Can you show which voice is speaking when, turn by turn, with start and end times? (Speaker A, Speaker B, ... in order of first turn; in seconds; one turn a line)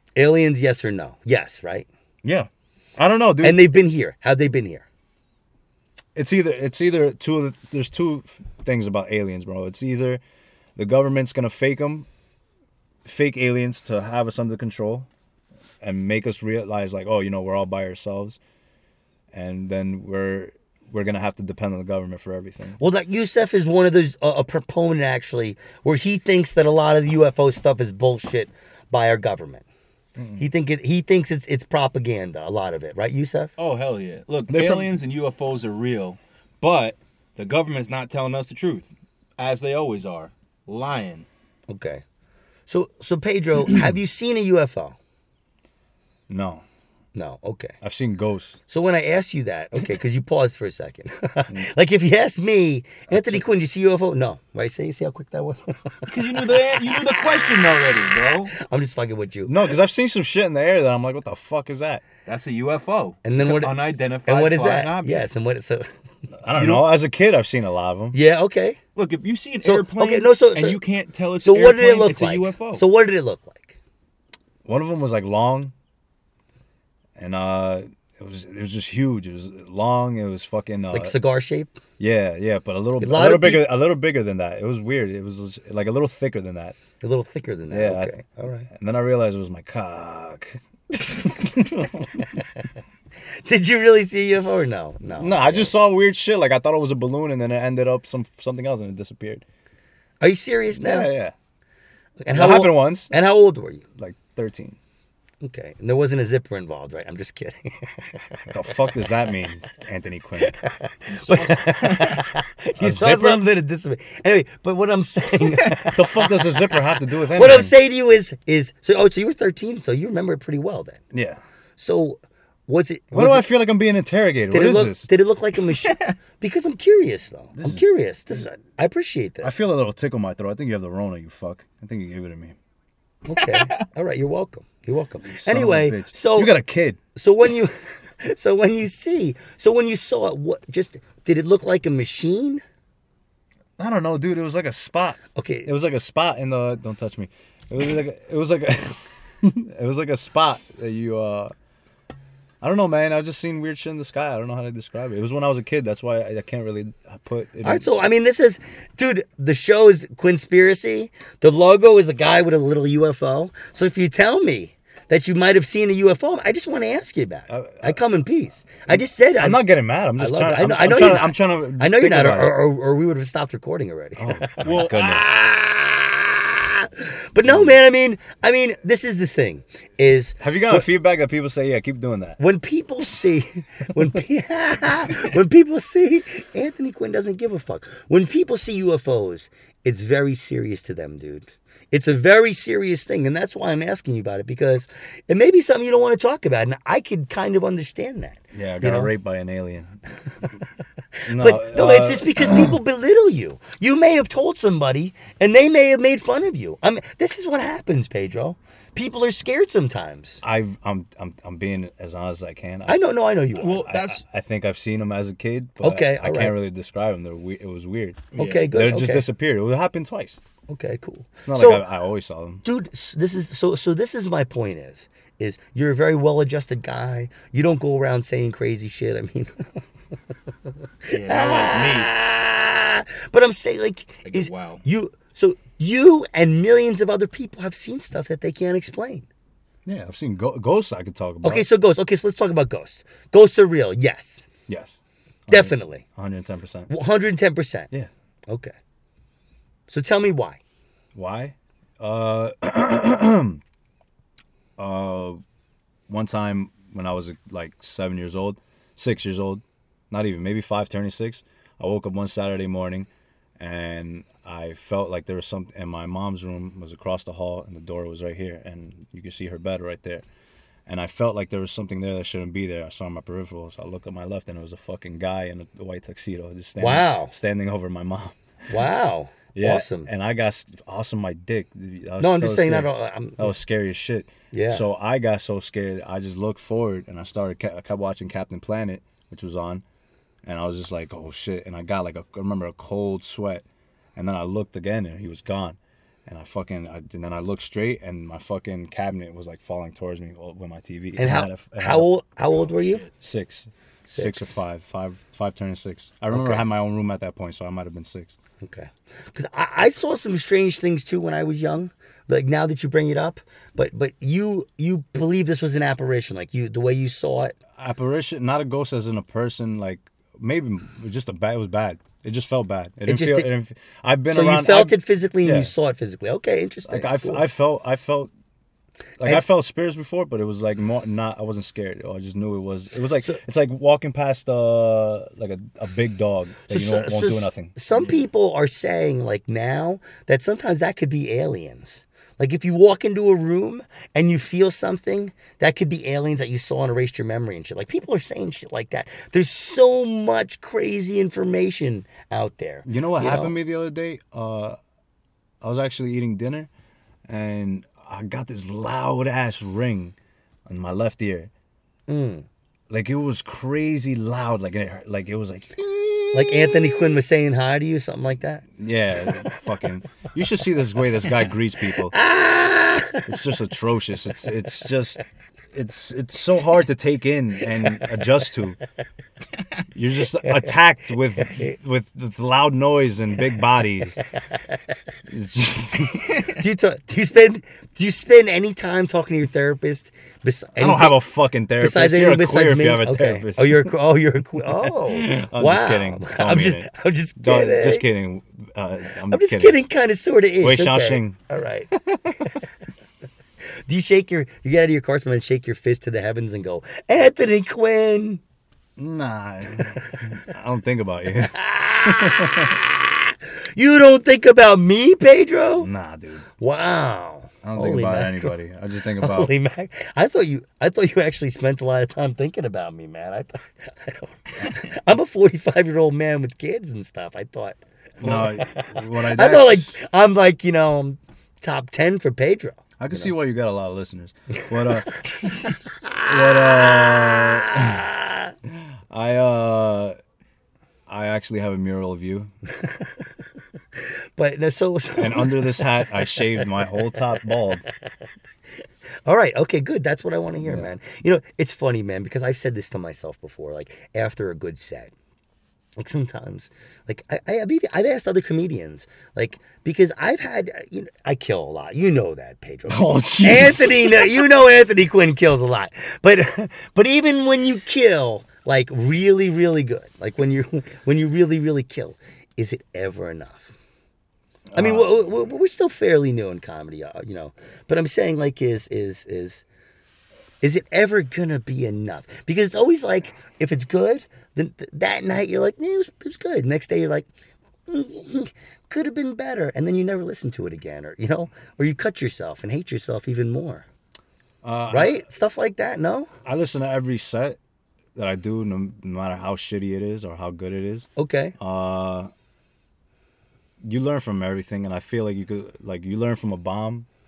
Speaker A: 0.2-1.9
Speaker B: 2.2-3.6
Speaker A: 3.4-4.8
Speaker B: 6.2-10.2
Speaker B: 10.8-12.1
Speaker B: 13.1-15.1
Speaker B: 15.8-18.4
Speaker B: 19.3-22.8
Speaker A: 22.8-29.6
Speaker B: 30.2-30.5
Speaker A: 30.4-33.5
Speaker C: 33.6-41.3
Speaker B: 34.5-34.9
Speaker A: 41.7-42.0
Speaker A: 42.7-45.0
Speaker B: 46.3-46.6
Speaker A: 47.1-47.8
Speaker B: 47.8-48.6
Speaker A: 48.7-57.2
Speaker B: 53.1-53.5
Speaker C: 56.1-58.5
Speaker A: 58.5-59.6
Speaker B: 59.5-62.0
Speaker C: 62.3-65.3
Speaker A: 63.2-65.9
Speaker B: 66.4-68.2
Speaker C: 66.5-66.9
Speaker A: 68.1-68.8
Speaker C: 69.0-72.8
Speaker A: 69.6-70.8
Speaker A: 71.4-73.8
Speaker B: 74.7-75.7
Speaker B: 77.2-81.2
Speaker A: 80.9-81.8
Speaker B: 82.0-86.8
Speaker A: 83.0-83.7
Speaker A: 87.0-88.7
Speaker B: 87.7-88.2
Speaker B: 88.7-92.3
Speaker A: 93.5-95.7
Speaker B: 95.2-99.4
Speaker A: 100.2-101.1
Speaker B: 100.7-101.3
Speaker A: 102.2-103.8
Speaker B: 102.3-103.1
Speaker B: 104.0-104.8
Speaker A: 105.4-108.5
Speaker B: 108.5-110.5
Speaker A: 110.4-121.0
Speaker C: 111.1-112.3
Speaker B: 112.8-113.5
Speaker B: 115.9-117.7
Speaker B: 121.1-121.4
Speaker A: 121.8-123.5
Speaker B: 123.1-125.1
Speaker A: 124.5-129.6
Speaker C: 125.8-126.1
Speaker B: 127.6-127.8
Speaker B: 129.4-132.6
Speaker A: 133.3-136.6
Speaker C: 133.4-133.7
Speaker B: 135.2-137.0
Speaker A: 137.2-142.6
Speaker B: 143.8-151.5
Speaker A: 145.3-145.7
Speaker B: 152.6-157.9
Speaker A: 157.6-169.6
Speaker B: 167.5-168.0
Speaker B: 168.9-172.6
Speaker A: 170.2-180.9
Speaker B: 174.2-175.4
Speaker C: 174.6-175.2
Speaker B: 177.4-177.8
Speaker B: 180.4-182.4
Speaker A: 182.4-199.1
Speaker B: 198.5-199.9
Speaker A: 201.2-210.4
Speaker B: 201.3-202.8
Speaker B: 210.4-213.0
Speaker A: 212.9-213.9
Speaker C: 213.6-214.2
Speaker B: 213.8-220.4
Speaker A: 215.8-216.6
Speaker C: 218.3-218.7
Speaker A: 218.4-219.2
Speaker A: 220.7-221.8
Speaker B: 221.4-222.6
Speaker A: 222.6-229.7
Speaker A: 231.1-239.3
Speaker C: 231.1-232.1
Speaker C: 234.2-234.8
Speaker B: 239.9-241.7
Speaker A: 241.4-244.5
Speaker B: 244.7-245.0
Speaker B: 245.5-246.9
Speaker A: 245.5-246.1
Speaker A: 246.9-247.9
Speaker A: 248.5-248.7
Speaker A: 249.9-250.6
Speaker B: 251.2-253.6
Speaker B: 254.8-255.4
Speaker B: 256.1-263.1
Speaker B: 263.6-270.2
Speaker B: 270.9-278.8
Speaker A: 276.8-277.3
Speaker A: 278.7-280.1
Speaker B: 279.5-289.8
Speaker A: 282.2-283.6
Speaker A: 284.5-284.9
Speaker B: 290.4-293.6
Speaker B: 294.2-302.1
Speaker A: 301.2-303.1
Speaker C: 302.8-303.1
Speaker B: 303.2-308.4
Speaker A: 304.1-304.5
Speaker A: 306.3-306.6
Speaker A: 308.6-317.6
Speaker B: 317.8-325.7
Speaker A: 323.1-323.5
Speaker A: 324.3-327.4
Speaker B: 326.9-328.3
Speaker B: 329.2-337.8
Speaker A: 336.7-353.6
Speaker B: 352.9-354.8
Speaker B: 355.6-356.7
Speaker B: 357.3-360.1
Speaker B: 360.7-361.5
Speaker A: 362.1-362.5
Speaker B: 362.9-367.0
Speaker A: 366.3-368.6
Speaker B: 368.8-372.2
Speaker A: 372.1-373.3
Speaker B: 373.3-375.2
Speaker B: 375.7-378.8
Speaker B: 379.9-384.2
Speaker B: 385.3-386.4
Speaker A: 386.4-391.2
Speaker B: 390.8-393.9
Speaker A: 391.8-398.1
Speaker B: 394.8-399.8
Speaker A: 399.3-401.9
Speaker B: 400.6-401.4
Speaker B: 401.9-402.5
Speaker A: 403.9-408.4
Speaker B: 409.0-412.8
Speaker A: 411.6-415.9
Speaker B: 415.8-416.5
Speaker A: 416.6-418.6
Speaker B: 417.6-419.5
Speaker A: 419.2-433.3
Speaker B: 428.2-429.9
Speaker B: 433.0-435.2
Speaker A: 435.1-438.5
Speaker B: 436.2-438.1
Speaker B: 438.7-440.1
Speaker B: 441.1-442.5
Speaker A: 444.0-446.7
Speaker B: 445.2-447.8
Speaker A: 449.3-455.1
Speaker B: 450.6-450.9
Speaker A: 456.0-473.7
Speaker B: 462.9-464.5
Speaker B: 474.7-475.2
Speaker A: 474.8-479.6
Speaker A: 480.6-487.3
Speaker A: 487.9-493.9
Speaker B: 494.6-495.2
Speaker A: 494.9-496.3
Speaker B: 496.4-497.6
Speaker B: 498.2-502.3
Speaker A: 501.2-501.6
Speaker B: 503.8-507.1